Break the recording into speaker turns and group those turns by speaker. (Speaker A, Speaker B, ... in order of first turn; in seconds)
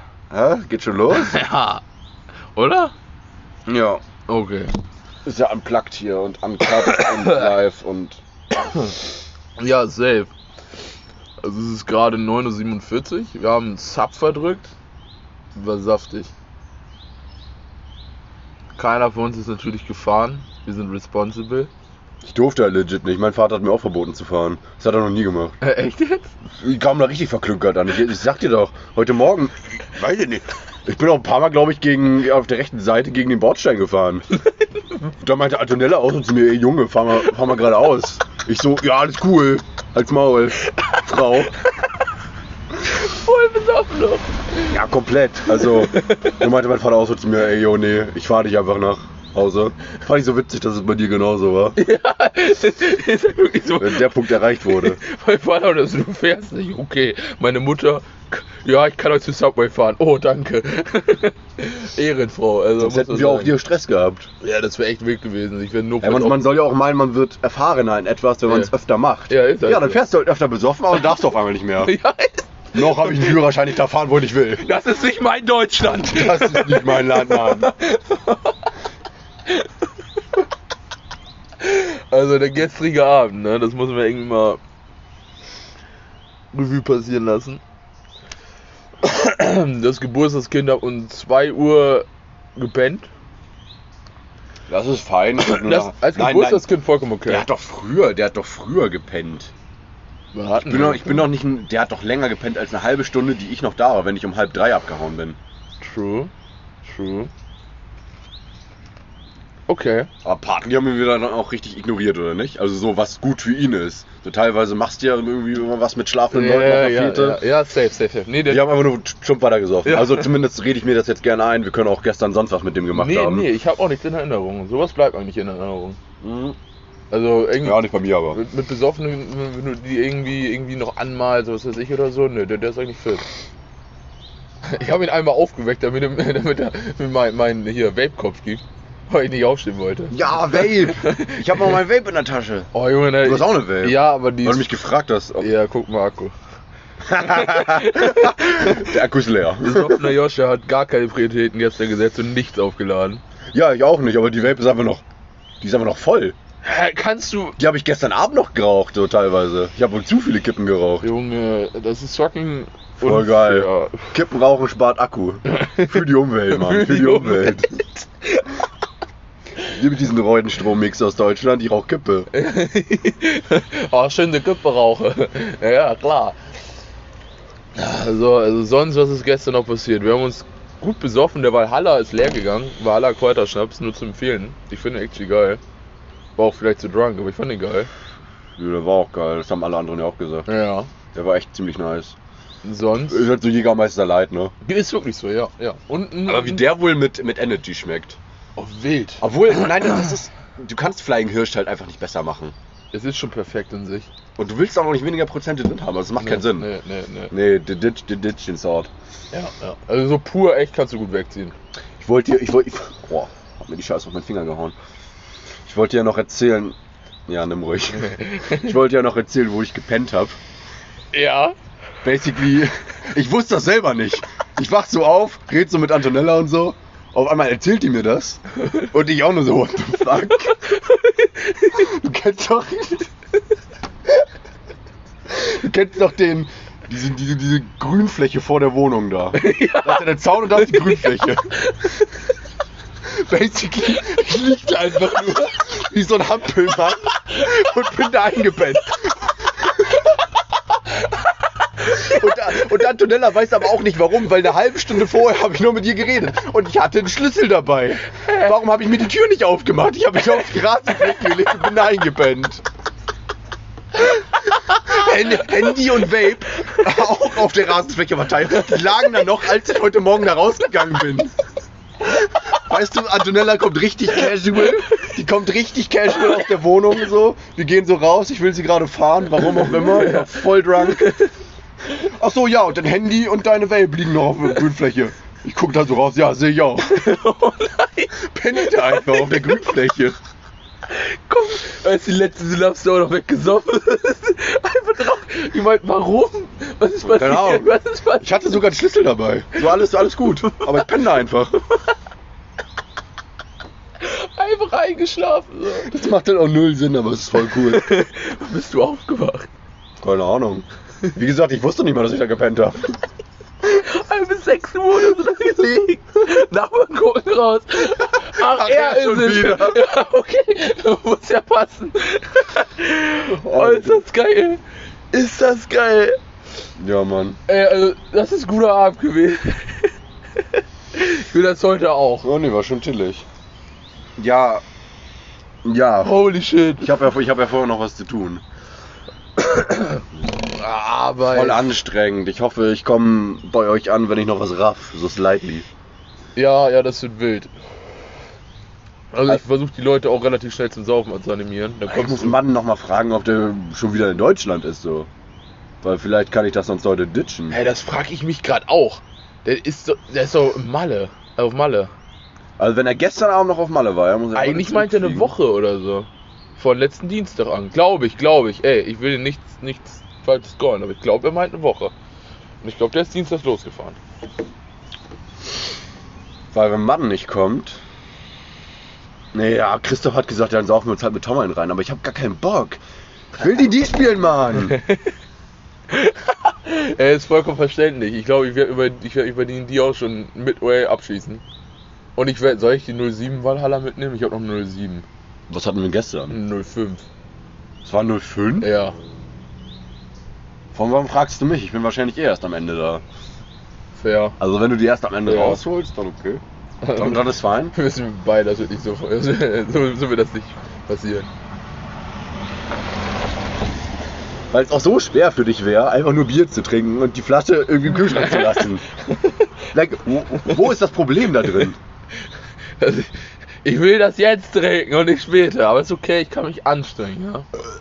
Speaker A: 0.3-1.4, 3.7-4.0, 5.2-8.2, 22.2-25.6, 26.6-34.3, 35.2-41.5, 44.6-51.8, 53.8-55.0, 62.8-64.3, 66.0-71.9, 72.7-74.7, 75.9-77.7, 94.7-96.7, 97.2-99.5, 100.6-105.4, 110.2-117.4, 118.5-123.5, 126.2-126.5, 127.6-128.4, 140.1-142.7, 143.2-145.5, 147.0-150.1, 153.5-155.0, 155.6-156.3, 157.6-161.1, 163.0-167.7, 169.7-172.3, 188.6-190.5, 191.1-192.2, 193.1-194.5, 196.3-198.2, 199.2-202.5, 204.3-206.7, 207.3-208.9, 212.0-214.7, 215.7-216.8, 217.3-220.4, 222.0-230.7, 231.7-233.1, 235.3-241.5, 243.1-249.3, 251.9-262.6, 264.7-271.3, 272.4-281.1, 281.9-287.0, 288.2-290.2, 297.0-297.7, 298.2-301.6, 305.8-307.9, 310.0-313.0, 318.4-319.8, 323.3-324.0, 326.8-327.4, 332.2-333.2, 334.2-334.6, 335.6-336.2, 336.8-338.4, 341.2-345.6, 351.9-355.1, 355.8-357.6, 362.6-365.3, 376.5-377.8, 379.3-382.8, 383.3-384.8, 395.5-396.4, 397.8-398.7, 400.7-403.0, 404.4-406.4, 406.9-407.7, 414.5-418.8, 419.7-421.8
Speaker B: 1.1-1.8, 2.5-2.9, 4.3-4.7, 6.6-7.5, 8.7-8.9, 9.6-10.3, 11.4-14.7, 15.5-16.3, 18.8-21.7, 25.6-26.3, 34.4-35.0, 40.7-41.0, 42.8-44.7, 45.6-46.4, 51.8-63.5, 64.4-66.4, 68.5-68.7, 69.3-70.0, 70.9-71.2, 71.8-73.5, 74.6-78.7, 81.6-84.6, 86.5-87.6, 89.0-93.1, 95.4-97.5, 100.3-101.2, 105.8-106.3, 106.8-107.3, 109.7-110.1, 116.3-118.7, 119.8-120.3, 122.9-126.0, 127.1-133.2, 134.7-141.8, 142.7-144.7, 145.4-146.3, 147.2-148.9, 149.6-153.2, 156.6-157.6, 161.0-164.1, 165.5-168.6, 172.3-176.4, 177.8-185.6, 186.3-187.9, 190.5-190.9, 192.6-193.2, 194.6-196.7, 198.6-199.8, 202.9-204.1, 206.2-207.3, 209.3-211.5, 218.0-218.7, 221.1-221.5, 230.1-231.9, 239.3-242.1, 245.1-245.4, 251.0-252.2, 258.2-258.5, 264.5-265.9, 279.5-281.3, 286.8-289.6, 290.9-298.6, 300.4-301.1, 304.0-305.9, 307.4-309.5, 313.6-324.6, 325.1-326.2, 327.5-332.3, 336.0-336.9, 339.4-341.8, 346.4-347.5, 349.1-352.4, 357.5-361.9, 364.3-371.9, 372.6-374.0, 384.6-385.1, 385.9-391.4, 392.1-395.0, 396.3-397.0, 398.6-398.9, 403.9-404.4, 405.2-405.6, 406.8-411.3, 418.1-419.5, 420.4-420.7, 421.4-421.7, 422.8-427.5